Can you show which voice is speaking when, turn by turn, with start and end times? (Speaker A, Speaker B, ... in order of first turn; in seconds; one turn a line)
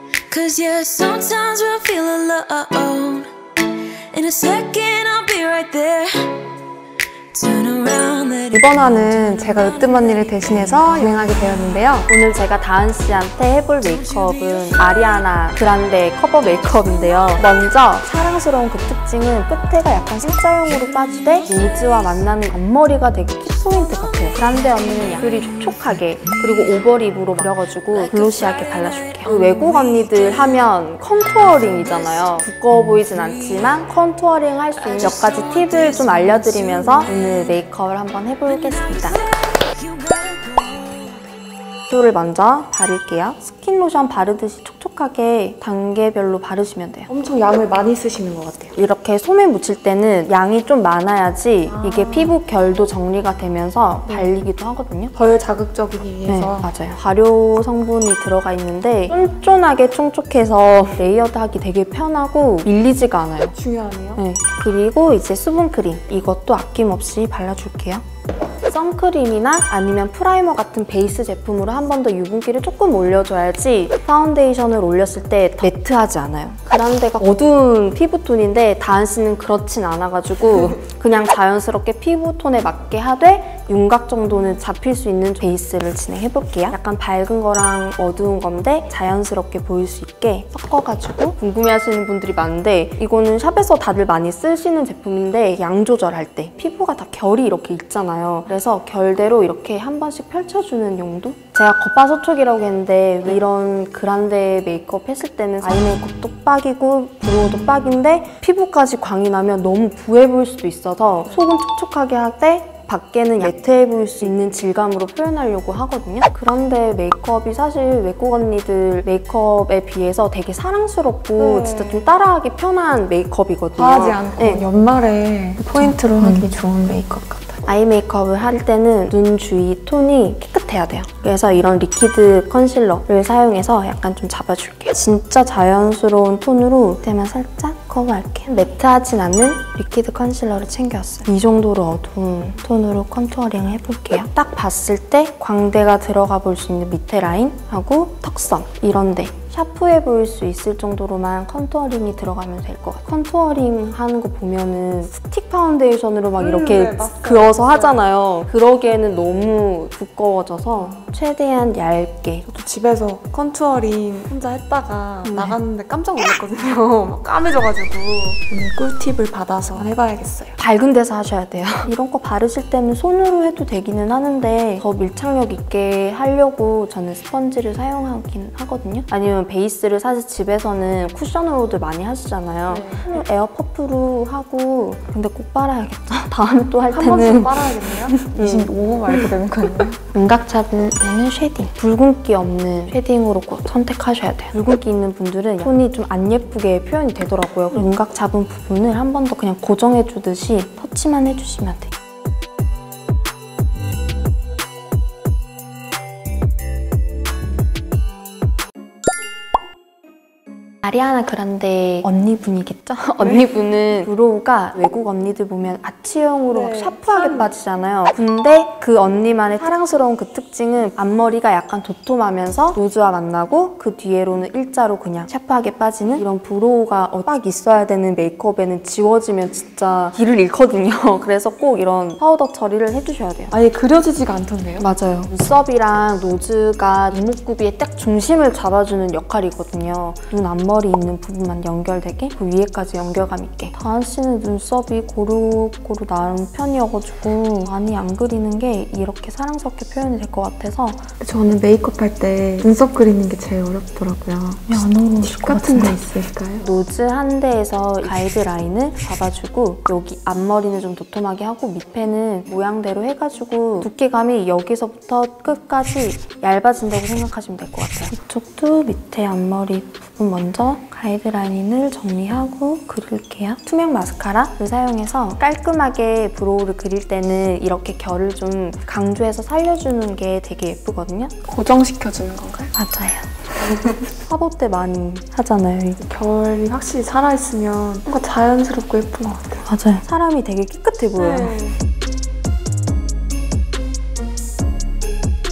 Speaker A: 0.3-6.4
Speaker A: 7.3-11.3
Speaker B: 8.5-12.1
Speaker C: 12.1-39.2
Speaker A: 13.8-15.1
Speaker A: 21.1-22.1
Speaker A: 24.4-26.4
Speaker A: 27.9-33.7
Speaker A: 34.8-37.5
Speaker A: 38.5-41.2
Speaker C: 41.9-47.1
Speaker B: 47.1-48.7
Speaker C: 48.8-55.1
Speaker B: 51.7-52.4
Speaker B: 54.1-54.3
Speaker B: 55.1-56.7
Speaker C: 56.2-63.5
Speaker B: 63.5-64.2
Speaker C: 64.2-68.0
Speaker C: 68.7-124.6
Speaker B: 121.4-122.0
Speaker B: 123.8-127.6
Speaker C: 125.9-126.5
Speaker C: 127.7-162.5
Speaker B: 156.3-158.1
Speaker B: 162.5-170.6
Speaker C: 165.3-165.6
Speaker C: 170.6-188.7
Speaker B: 182.7-183.1
Speaker B: 186.9-190.0
Speaker C: 190.1-201.9
Speaker C: 210.8-233.5
Speaker B: 216.5-217.5
Speaker B: 233.5-234.9
Speaker C: 234.8-251.1
Speaker B: 251.2-256.6
Speaker C: 254.7-256.0
Speaker C: 256.6-281.3
Speaker B: 281.4-282.7
Speaker C: 282.7-283.4
Speaker B: 283.6-284.0
Speaker C: 284.2-286.0
Speaker B: 286.0-289.6
Speaker C: 289.6-291.6
Speaker B: 291.2-291.8